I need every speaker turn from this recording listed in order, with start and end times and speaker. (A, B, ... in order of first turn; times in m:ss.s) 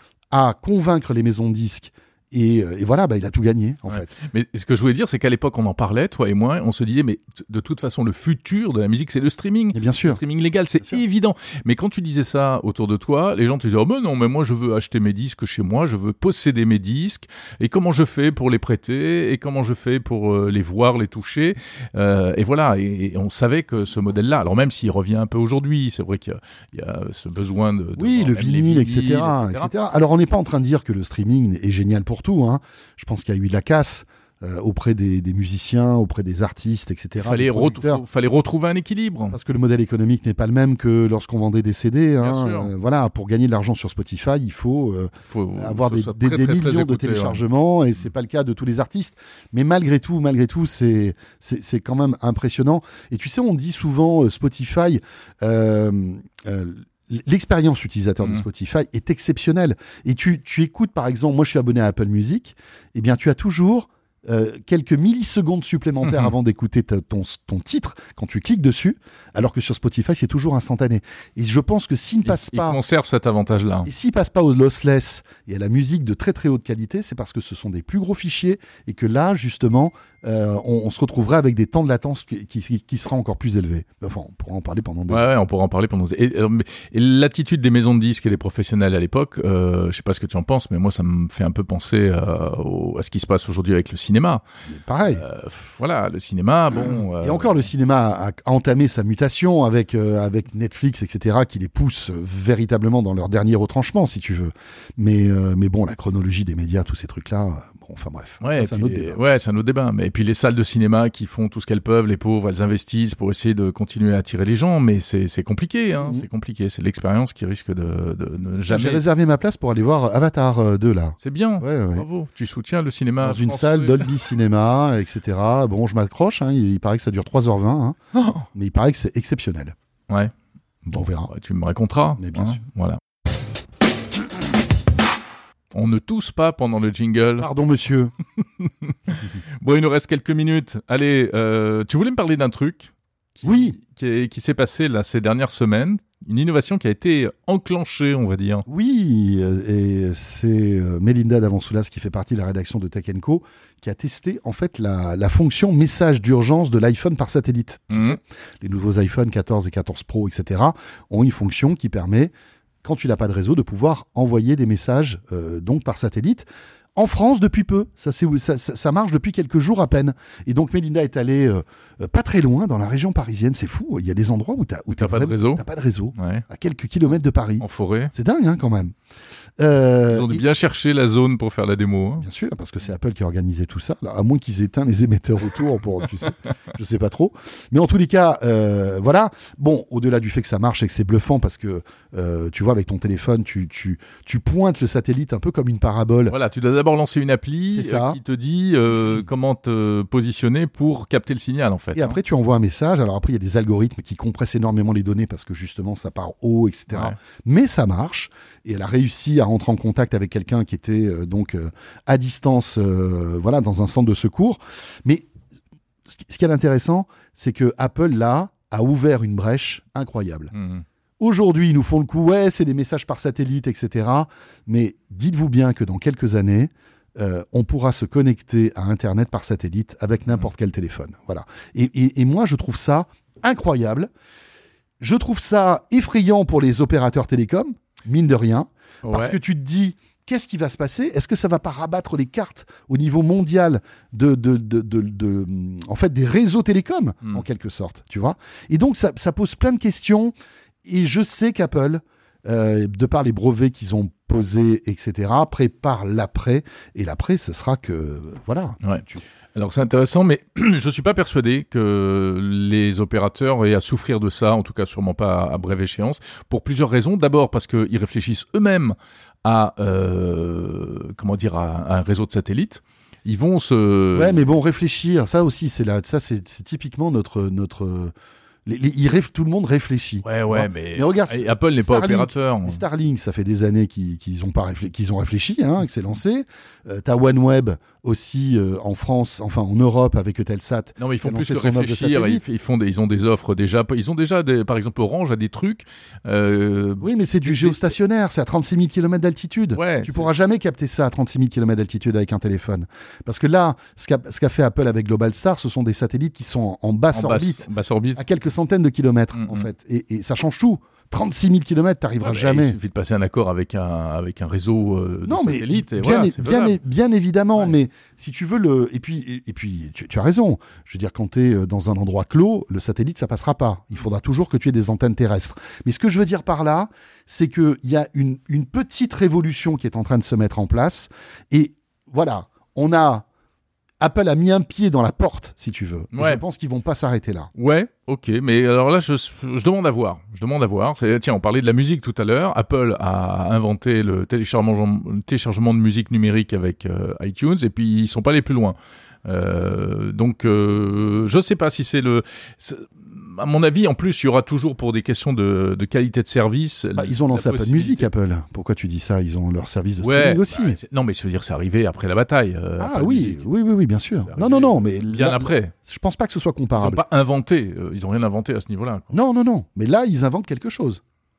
0:00.3-0:04.1 A
0:03.9-0:29.7 B
0:09.7-0:10.2 A
0:28.0-0:38.0 A
0:37.2-0:39.4 B
0:39.3-1:12.8 A
0:42.2-0:42.7 B
0:45.3-0:47.4 B
1:06.0-1:06.3 B
1:12.3-1:13.9 B
1:13.8-1:25.2 A
1:25.1-1:34.4 B
1:34.7-1:35.2 A
1:35.1-1:37.6 B
1:36.8-1:49.2 A
1:48.4-1:59.0 B
1:58.7-2:02.1 A
2:01.2-2:04.3 B
2:03.2-2:08.0 A
2:08.1-2:08.5 B
2:08.5-2:09.8 A
2:10.8-2:13.0 B
2:10.9-2:11.3 A
2:12.2-2:12.6 A
2:15.7-2:17.5 B
2:17.4-2:18.1 A
2:18.4-2:28.7 B
2:23.4-2:23.8 A
2:28.7-2:42.3 A
2:37.9-2:38.2 B
2:42.8-2:46.4 A
2:47.0-2:58.9 A
2:55.0-2:55.6 B
2:56.2-2:56.4 B
2:57.6-2:58.1 B
2:59.6-3:00.4 A
3:00.1-3:02.3 B
3:02.2-3:16.4 A
3:16.3-3:22.2 B
3:17.7-3:18.2 A
3:22.0-3:35.3 A
3:26.9-3:27.2 B
3:36.1-3:40.5 A
3:40.5-3:40.8 B
3:41.2-3:54.1 A
3:55.0-4:10.3 A
3:59.0-3:59.4 B
4:10.8-4:19.2 A
4:18.8-4:34.4 B
4:34.2-4:38.1 A
4:38.6-4:52.4 A
4:40.2-4:42.8 B
4:51.0-4:57.9 B
4:57.0-5:12.8 A
4:59.7-5:00.3 B
5:07.1-5:08.2 B
5:09.3-5:09.7 B
5:12.2-5:16.8 B
5:15.3-5:33.3 A
5:34.0-5:37.5 A
5:36.1-5:36.4 B
5:37.6-5:58.1 B
5:57.0-6:00.8 A
6:00.0-6:03.4 B
6:02.8-6:07.0 A
6:04.3-6:05.7 B
6:06.8-6:09.1 B
6:09.1-6:11.0 A